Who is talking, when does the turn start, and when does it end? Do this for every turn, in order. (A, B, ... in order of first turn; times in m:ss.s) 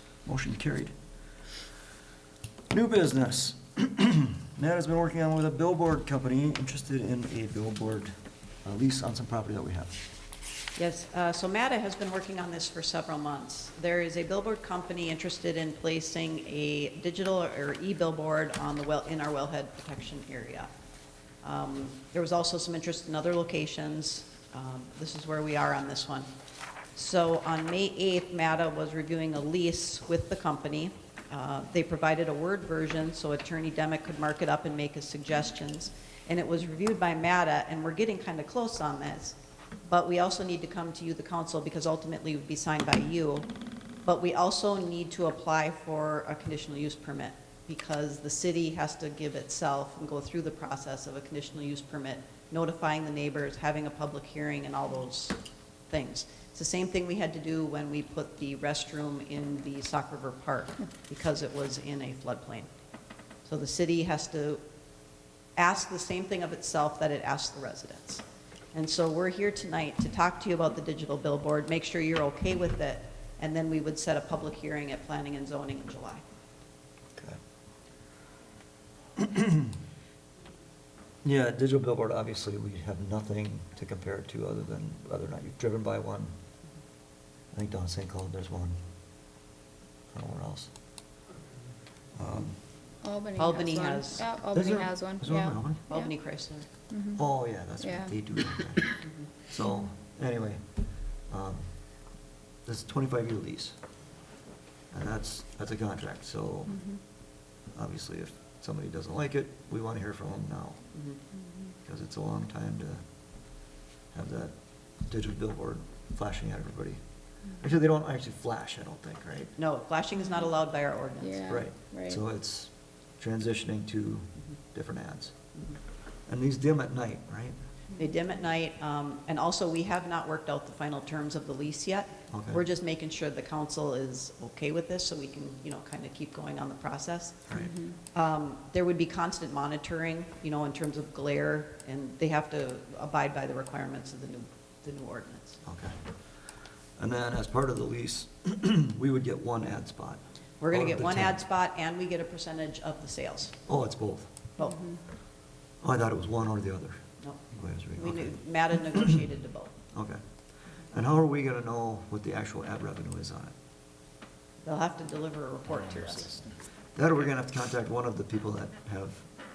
0:00.2-0:00.9 A
0:02.7-0:08.1 A
0:08.6-0:10.0 A
0:10.8-0:20.7 B
0:21.4-0:26.3 B
0:26.9-0:43.5 B
0:44.0-0:55.4 B
0:55.9-1:02.7 B
1:03.4-1:04.6 B
1:05.6-1:16.2 B
1:19.2-1:19.7 A
1:21.2-1:26.3 A
1:27.5-1:28.8 A
1:30.1-1:30.7 A
1:32.2-1:32.6 A
1:33.0-1:36.1 C
1:33.4-1:34.3 B
1:34.5-1:35.8 A
1:35.9-1:36.7 B
1:36.9-1:37.2 C
1:37.2-1:40.8 A
1:37.8-1:38.2 C
1:39.0-1:39.3 B
1:41.3-1:41.7 A
1:42.6-1:43.8 A
1:44.9-1:47.0 A
1:47.7-1:50.8 A
1:50.9-1:51.2 B
1:51.8-1:53.0 A
1:54.1-1:57.0 A
1:57.6-1:59.5 A
1:59.6-2:01.6 B
2:01.2-2:02.2 C
2:01.5-2:05.3 A
2:06.3-2:07.6 A
2:08.0-2:25.6 B
2:12.3-2:12.6 A
2:25.6-2:26.0 A
2:27.0-2:31.4 A
2:30.6-2:33.6 B
2:33.7-2:34.4 A
2:34.6-2:34.8 B
2:35.8-2:37.0 A
2:37.2-2:39.7 B
2:37.5-2:38.4 A
2:39.9-2:40.2 A
2:40.9-2:43.5 A
2:44.6-2:46.4 B
2:46.9-2:49.3 A